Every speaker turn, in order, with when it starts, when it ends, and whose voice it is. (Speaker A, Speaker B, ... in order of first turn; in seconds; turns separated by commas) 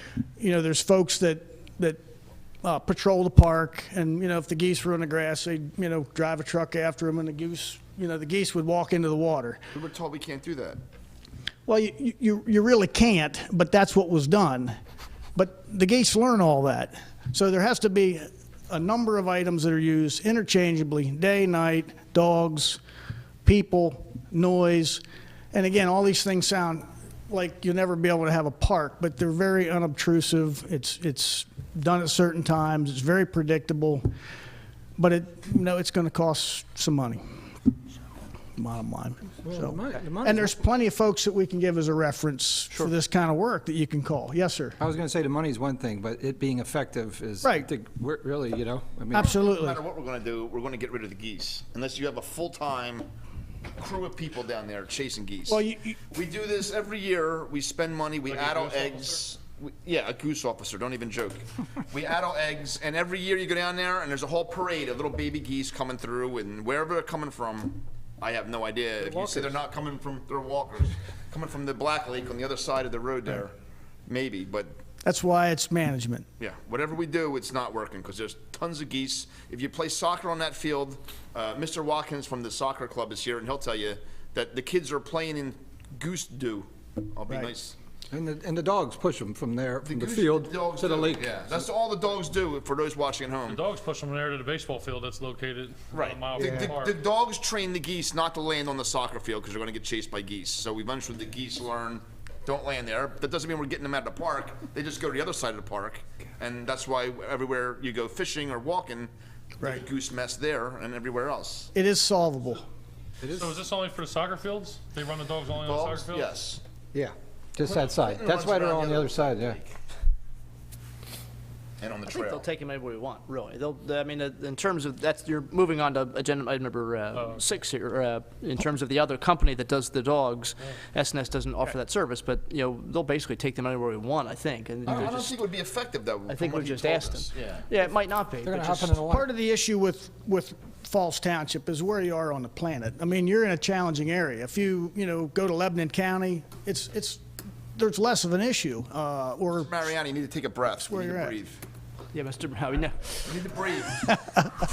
Speaker A: 0.4-2.0, Speaker A: 2.6-9.6, Speaker B: 9.7-10.8, Speaker A: 11.7-14.7, Speaker A: 15.3-22.8, Speaker A: 23.4-25.0, Speaker A: 25.5-34.0, Speaker A: 35.0-37.2, Speaker A: 38.6-44.8, Speaker C: 39.4-40.5, Speaker C: 44.8-49.3, Speaker A: 47.4-47.7, Speaker A: 49.1-49.8, Speaker B: 49.1-53.1, Speaker B: 53.8-73.5, Speaker A: 55.5-55.9, Speaker D: 58.3-59.2, Speaker C: 69.0-69.5, Speaker B: 74.1-74.7, Speaker A: 75.0-76.3, Speaker B: 76.4-87.7, Speaker C: 88.1-91.3, Speaker B: 89.8-93.6, Speaker D: 93.5-96.9, Speaker B: 95.9-109.1, Speaker C: 96.4-96.7, Speaker B: 109.6-111.7, Speaker A: 111.7-112.6, Speaker C: 113.2-113.6, Speaker D: 113.3-116.3, Speaker B: 115.6-116.6, Speaker C: 116.9-119.6, Speaker B: 117.7-119.7, Speaker B: 121.8-122.5, Speaker E: 122.1-135.4, Speaker D: 127.1-127.5, Speaker C: 134.8-135.1, Speaker B: 134.8-137.6, Speaker E: 136.3-139.0, Speaker C: 138.4-139.3, Speaker A: 139.1-147.2, Speaker A: 147.7-149.7, Speaker B: 149.5-151.6, Speaker A: 150.8-151.4, Speaker E: 152.1-153.1, Speaker B: 153.2-154.1